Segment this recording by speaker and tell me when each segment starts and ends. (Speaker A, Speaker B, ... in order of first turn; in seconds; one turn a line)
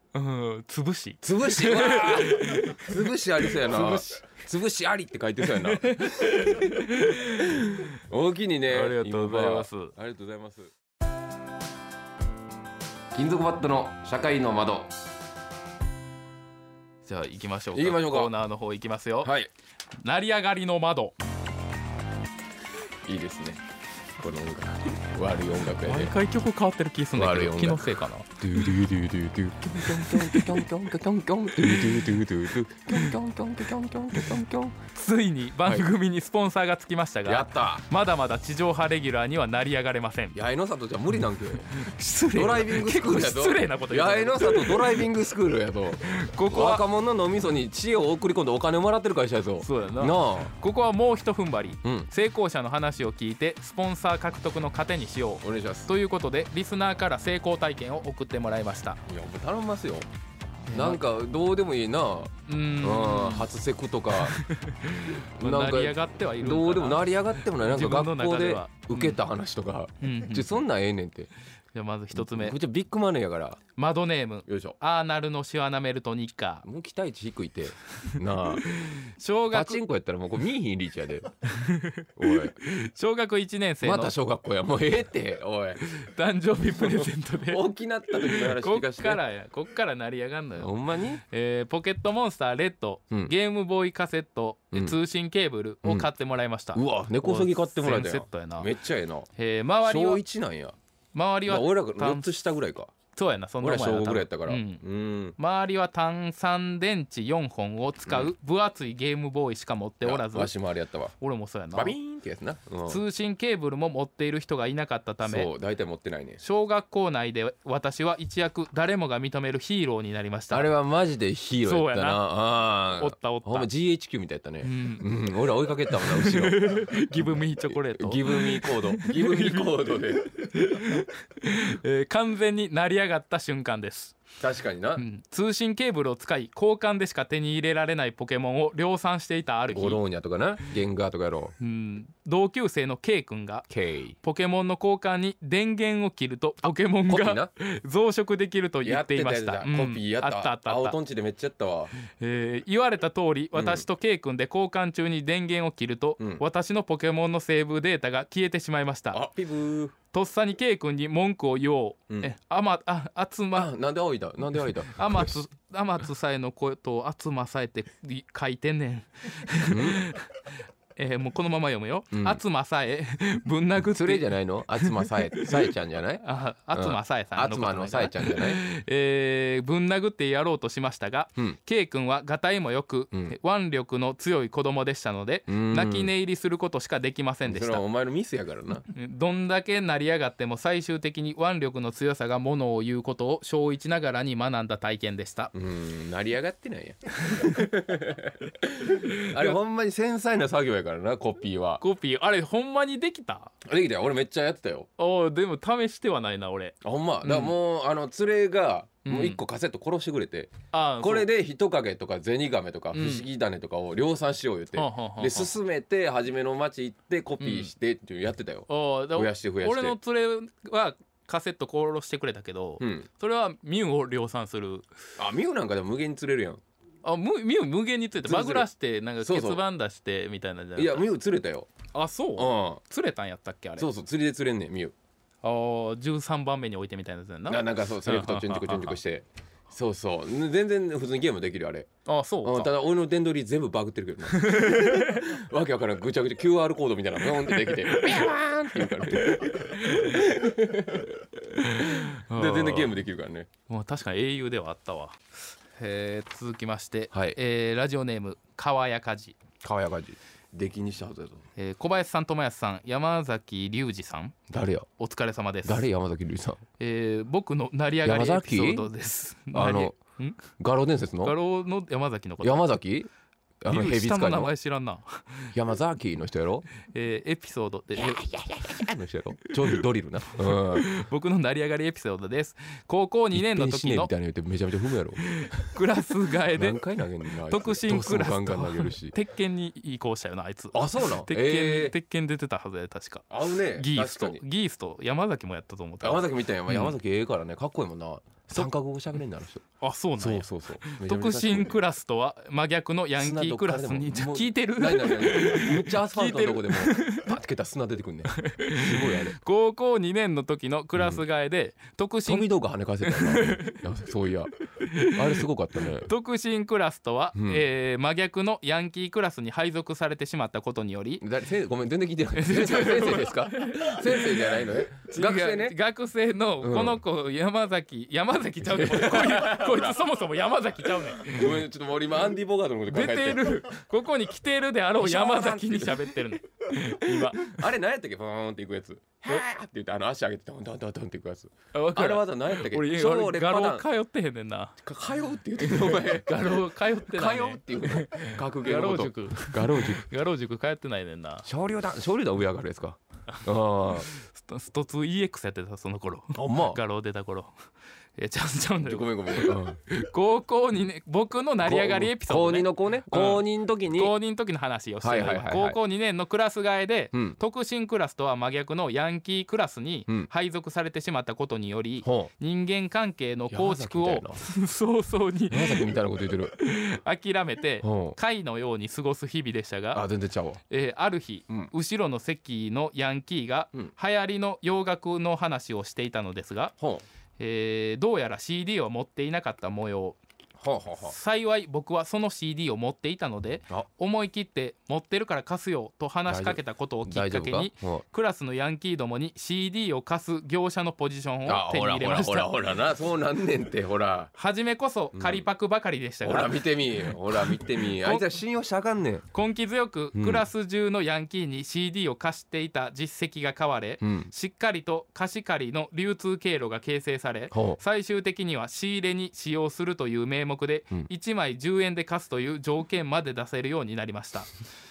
Speaker A: 0.1-4.4
Speaker B: 1.2-10.7
Speaker A: 5.5-7.9
Speaker A: 8.7-9.9
Speaker B: 13.1-14.9
Speaker A: 17.0-19.3
Speaker B: 17.7-18.3
Speaker B: 19.2-19.5
Speaker A: 20.0-21.1
Speaker B: 23.0-23.6
Speaker B: 24.2-26.1
Speaker A: 25.8-28.3
Speaker B: 27.1-34.8
Speaker A: 29.8-30.6
Speaker A: 31.6-32.0
Speaker A: 34.9-40.4
Speaker B: 37.2-37.8
Speaker B: 40.3-41.7
Speaker A: 41.7-45.0
Speaker B: 42.3-50.5
Speaker A: 46.0-46.8
Speaker A: 49.6-59.0
Speaker B: 51.8-52.1
Speaker B: 55.4-55.9
Speaker B: 59.1-60.1
Speaker A: 60.7-61.0
Speaker B: 60.7-64.4
Speaker A: 62.5-63.5
Speaker A: 64.2-69.2
Speaker B: 65.1-71.3
Speaker A: 70.0-70.6
Speaker A: 71.7-72.6
Speaker B: 72.1-73.6
Speaker A: 73.8-76.7
Speaker B: 74.5-74.8
Speaker B: 76.6-78.6
Speaker A: 78.7-79.8
Speaker B: 79.5-81.3
Speaker A: 81.5-84.1
Speaker B: 82.2-82.6
Speaker B: 83.8-85.8
Speaker A: 85.8-90.7
Speaker B: 86.8-89.2
Speaker B: 90.6-91.2
Speaker A: 91.3-98.7
Speaker B: 94.7-95.0
Speaker B: 95.8-96.1
Speaker B: 96.7-99.3
Speaker A: 99.3-100.2
Speaker B: 99.8-100.8
Speaker A: 101.1-102.3
Speaker B: 101.5-102.9
Speaker A: 103.1-104.8
Speaker B: 103.6-105.3
Speaker A: 105.4-110.5
Speaker B: 108.0-108.3
Speaker B: 110.0-111.1
Speaker A: 111.2-112.0
Speaker B: 111.7-113.0
Speaker A: 112.9-115.5
Speaker B: 115.2-116.4
Speaker A: 116.4-120.7
Speaker B: 120.5-130.3
Speaker A: 121.6-122.2
Speaker A: 122.9-123.7
Speaker A: 124.6-125.1
Speaker A: 125.9-134.2
Speaker B: 134.4-135.0
Speaker A: 135.0-140.0
Speaker B: 139.7-141.5
Speaker A: 141.6-143.7
Speaker B: 143.7-144.2
Speaker A: 144.2-151.0
Speaker B: 147.1-147.5
Speaker B: 148.8-151.9
Speaker A: 152.1-159.2
Speaker B: 153.5-153.8
Speaker B: 156.2-156.4
Speaker B: 159.1-159.9
Speaker A: 160.1-163.7
Speaker B: 163.5-165.4
Speaker A: 164.9-170.3
Speaker B: 169.7-170.1
Speaker A: 170.9-175.7
Speaker B: 172.1-172.4
Speaker B: 173.8-178.6
Speaker A: 176.2-187.8
Speaker B: 185.5-186.1
Speaker B: 187.4-188.8
Speaker A: 188.9-195.5
Speaker B: 195.5-201.8
Speaker A: 199.1-199.5
Speaker A: 201.8-203.5
Speaker B: 203.6-204.9
Speaker A: 205.0-207.5
Speaker B: 206.8-219.9
Speaker A: 209.0-209.4
Speaker A: 210.7-211.3
Speaker A: 212.9-213.2
Speaker A: 214.7-215.5
Speaker A: 217.4-217.7
Speaker A: 218.7-224.9
Speaker B: 222.8-223.1
Speaker B: 225.2-226.6
Speaker A: 227.0-231.1
Speaker B: 228.2-228.7
Speaker B: 229.2-229.6
Speaker B: 230.8-231.7
Speaker A: 231.9-233.9
Speaker B: 232.3-232.8
Speaker B: 233.8-234.9
Speaker A: 235.4-239.0
Speaker B: 237.5-241.9
Speaker A: 242.1-242.7
Speaker B: 242.4-253.5
Speaker A: 244.3-245.2
Speaker A: 249.3-250.2
Speaker A: 251.6-253.0
Speaker A: 253.7-255.2
Speaker A: 255.8-259.4
Speaker B: 257.1-257.4
Speaker B: 259.6-261.4
Speaker A: 261.6-264.4
Speaker B: 264.5-264.9
Speaker A: 265.0-265.9
Speaker B: 265.6-266.6
Speaker A: 266.8-270.4
Speaker B: 268.0-268.9
Speaker B: 269.5-269.9
Speaker B: 270.6-271.4
Speaker A: 271.2-272.7
Speaker B: 272.4-273.1
Speaker B: 273.6-274.5
Speaker A: 273.7-275.5
Speaker B: 275.5-276.7
Speaker A: 276.8-278.2
Speaker B: 277.9-280.9
Speaker A: 280.4-284.1
Speaker B: 283.3-285.7
Speaker A: 285.2-286.8
Speaker B: 286.5-289.1
Speaker A: 287.5-296.9
Speaker B: 290.7-291.9
Speaker B: 293.3-294.4
Speaker B: 296.0-299.6
Speaker A: 299.8-307.3
Speaker B: 300.2-301.8
Speaker B: 303.2-309.4
Speaker A: 308.3-312.5
Speaker B: 311.0-311.2
Speaker B: 312.2-316.1
Speaker A: 313.0-313.8
Speaker A: 314.8-315.4
Speaker A: 316.0-321.2
Speaker B: 317.3-317.6
Speaker B: 321.2-325.8
Speaker A: 322.3-331.6
Speaker B: 326.6-327.0
Speaker B: 328.6-330.0
Speaker B: 331.2-333.6
Speaker A: 332.9-337.6
Speaker B: 335.0-336.2
Speaker B: 336.7-343.9
Speaker A: 341.7-344.8
Speaker B: 344.8-350.1
Speaker A: 345.6-351.5
Speaker B: 351.4-354.1
Speaker A: 354.1-357.5
Speaker B: 356.3-356.8
Speaker A: 358.2-375.9
Speaker B: 358.8-359.8
Speaker B: 361.6-364.1
Speaker B: 365.0-365.8
Speaker B: 367.1-367.4
Speaker B: 372.0-372.3
Speaker B: 373.5-374.4
Speaker B: 375.5-376.5
Speaker A: 376.5-380.0
Speaker B: 377.8-378.2
Speaker B: 379.9-380.6
Speaker A: 380.7-386.7
Speaker B: 386.8-387.0
Speaker A: 387.4-390.2
Speaker B: 390.6-391.1
Speaker A: 391.0-402.5
Speaker B: 396.3-398.0
Speaker B: 401.4-404.3
Speaker A: 404.3-408.3
Speaker B: 405.1-405.5
Speaker B: 406.2-409.2
Speaker A: 409.3-424.5
Speaker B: 410.1-410.4
Speaker B: 414.0-414.3
Speaker B: 417.5-417.8